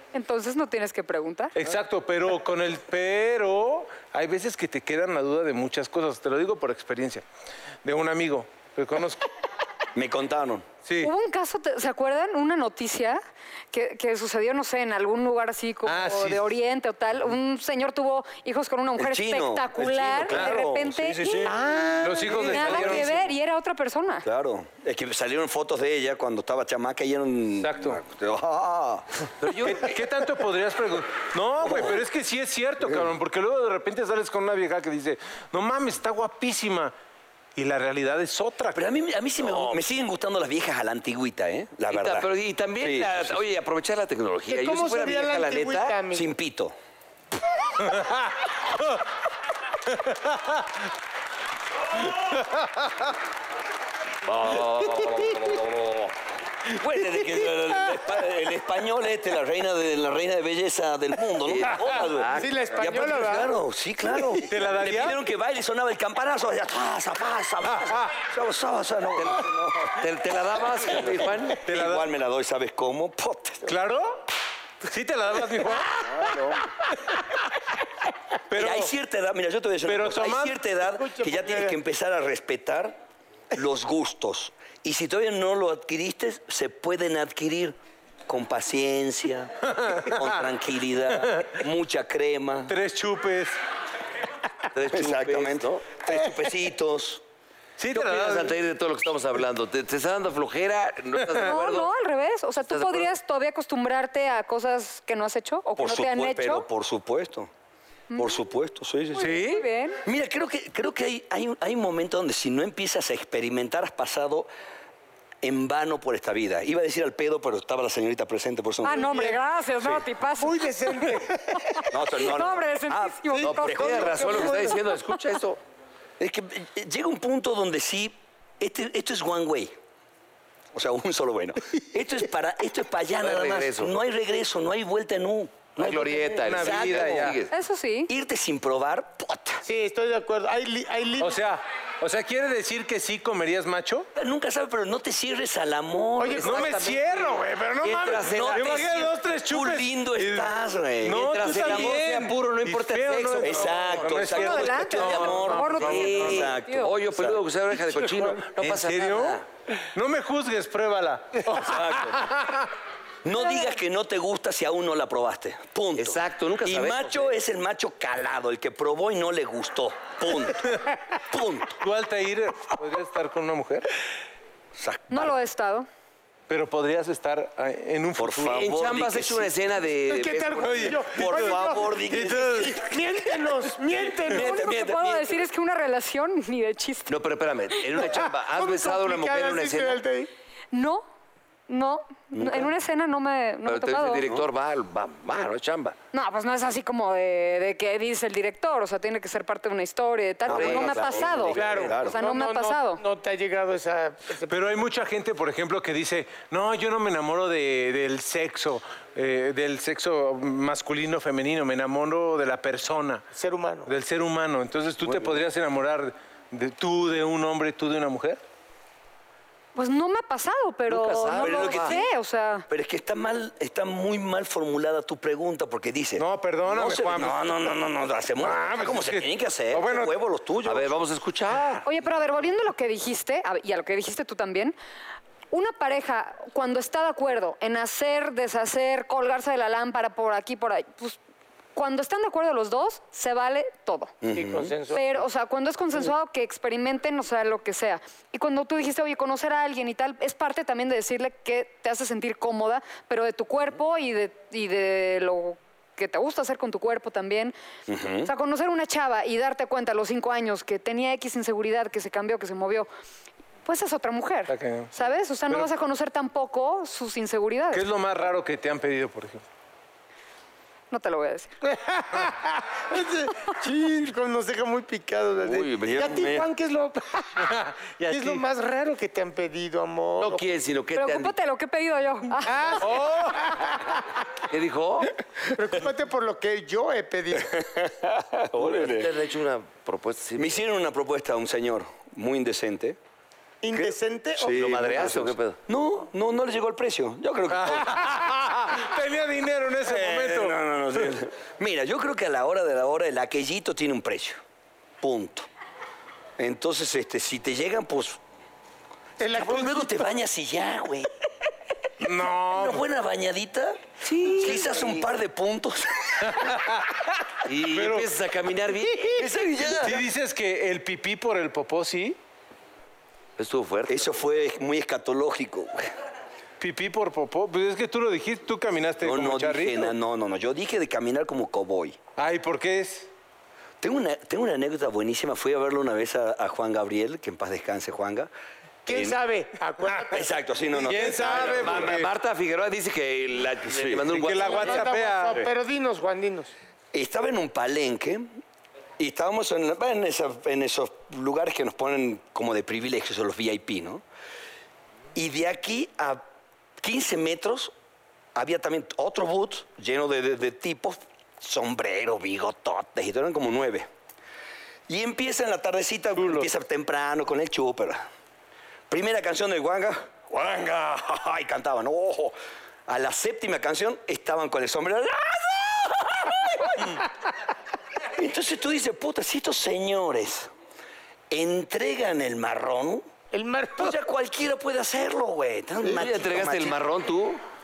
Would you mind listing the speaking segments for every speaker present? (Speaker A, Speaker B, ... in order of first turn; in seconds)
Speaker A: 0.1-1.6, 11.0-13.2, 13.7-24.3, 101.4-106.7, 108.1-108.4, 109.1-110.0, 118.8-124.7, 137.5-138.1, 154.3-157.0, 163.4-163.8, 175.1-175.9, 184.3-187.1, 190.7-191.0, 191.7-194.3, 196.1-203.0, 219.8-222.7, 231.8-234.8, 235.5-241.2, 241.8-244.1, 244.9-257.5, 258.2-262.9, 263.6-267.8, 270.9-271.5, 281.0-282.9
Speaker B: 1.6-7.2, 7.8-9.3, 10.8-11.1, 15.8-16.5, 20.3-20.6, 22.0-23.3, 27.6-28.0, 29.6-36.9, 37.6-38.9, 47.8-49.0, 49.9-50.6, 52.1-52.7, 64.5-65.2, 67.8-68.1, 71.6-72.1, 73.6-74.2, 74.8-76.3, 78.5-78.9, 79.9-80.6, 89.8-90.3, 91.2-91.6, 92.7-93.6, 97.8-98.6, 136.4-137.4, 141.2-144.1, 146.4-156.2, 158.0-162.6, 171.8-173.9, 176.5-178.6, 180.6-182.8, 204.5-213.2, 213.9-218.4, 226.2-227.7, 228.4-230.1, 264.5-264.9, 267.7-269.4, 277.4-278.4, 282.8-283.6, 297.5-300.6, 312.0-312.9, 316.3-317.0, 317.7-318.1, 318.9-322.2, 326.6-329.9, 332.2-333.1, 340.8-342.1, 344.1-345.4, 366.1-366.5
Speaker C: 9.9-10.7, 19.0-21.7, 22.2-23.1, 24.2-29.1, 31.6-32.0, 38.7-43.5, 46.1-46.8, 56.8-70.0, 70.8-73.8, 75.7-76.7, 78.5-83.0, 83.5-87.8, 88.3-92.8, 94.9-97.2, 105.8-107.5, 108.2-114.5, 115.4-119.1, 121.9-124.1, 126.2-129.8, 130.7-137.4, 138.1-139.6, 144.1-146.7, 148.2-152.0, 153.4-157.4, 161.5-162.3, 163.2-171.8, 174.8-175.4, 178.2-179.5, 181.1-182.9, 184.3-185.3, 192.3-192.7, 200.5-202.2, 215.0-215.4, 221.4-222.1, 222.7-230.9, 244.2-244.8, 257.9-258.3, 275.9-276.5, 287.5-289.1, 290.4-293.0, 293.8-298.4, 299.8-304.4, 305.0-305.5, 306.4-308.2, 309.3-311.1, 312.1-316.4, 319.1-320.1, 323.9-325.9, 329.0-332.0, 333.8-338.3, 338.9-339.2, 340.1-341.9, 343.6-344.2, 346.9-348.3, 349.0-354.0, 355.1-356.2, 356.8-357.7, 358.4-363.9, 364.9-368.1, 368.9-372.4, 372.9-377.1, 378.1-380.5, 381.3-383.1, 383.8-386.8
Speaker D: 29.4-30.0, 39.4-39.8, 41.9-46.0, 54.2-56.1, 56.8-57.8, 61.5-62.6, 69.2-71.6, 94.7-96.0, 97.9-101.9, 102.7-103.1, 109.2-109.6, 123.4-125.6, 133.2-134.0, 135.8-137.5, 146.3-146.7, 147.8-149.1, 151.1-159.4, 166.0-167.3, 178.5-181.2, 187.1-190.0, 193.7-196.0, 200.5-201.8, 220.9-222.0, 230.6-231.8, 275.4-276.3, 280.2-281.3, 284.5-285.1, 288.5-290.6, 294.5-295.6, 314.0-315.1, 317.5-319.4, 323.4-324.3, 341.3-344.9, 385.9-387.4
Speaker E: 44.5-46.3, 62.4-63.6, 80.8-81.8, 118.9-119.4, 120.4-121.9, 123.3-124.9, 135.9-136.6, 139.6-141.4, 146.2-147.3, 180.1-184.6, 188.0-190.3, 201.6-204.6, 213.3-213.9, 244.3-245.2, 271.6-277.5, 278.1-280.4, 282.4-283.6, 285.6-287.5, 293.6-295.1, 309.2-310.1, 338.9-341.9, 344.4-346.5, 383.3-384.0